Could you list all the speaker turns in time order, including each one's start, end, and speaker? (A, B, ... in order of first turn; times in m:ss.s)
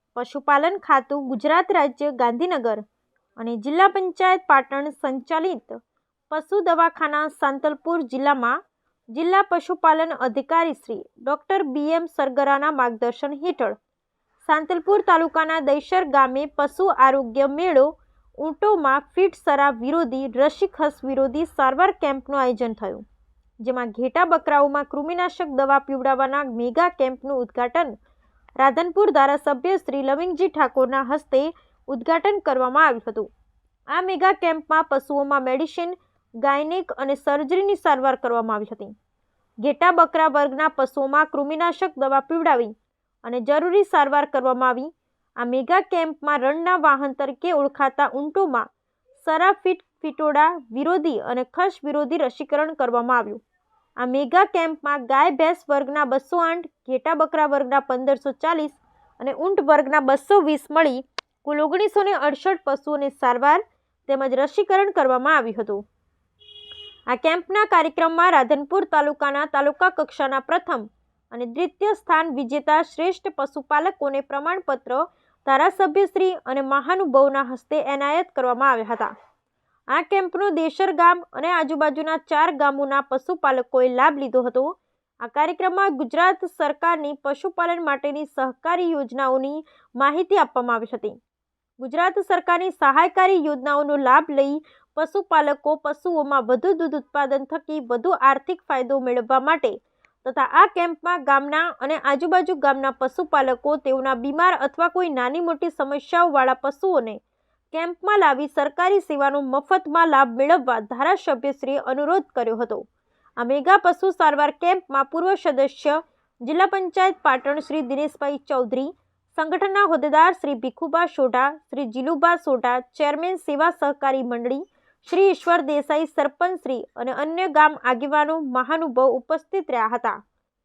0:00.2-0:02.8 A
0:03.4-0:05.8 A
0:06.3-0:08.6 A
0:09.1-0:13.8 A
0:14.4-0:23.0 A
0:23.6-0:28.0 A
0:28.6-0:33.3 A
0:33.9-0:38.9 A
0:39.6-0:42.7 A
0:43.2-0:48.7 A
0:49.2-0:53.4 A
0:54.0-1:05.8 A
1:07.1-1:19.1 A
1:19.9-1:31.2 A
1:31.8-1:47.2 A
1:47.7-1:52.8 A
1:53.4-2:10.2 A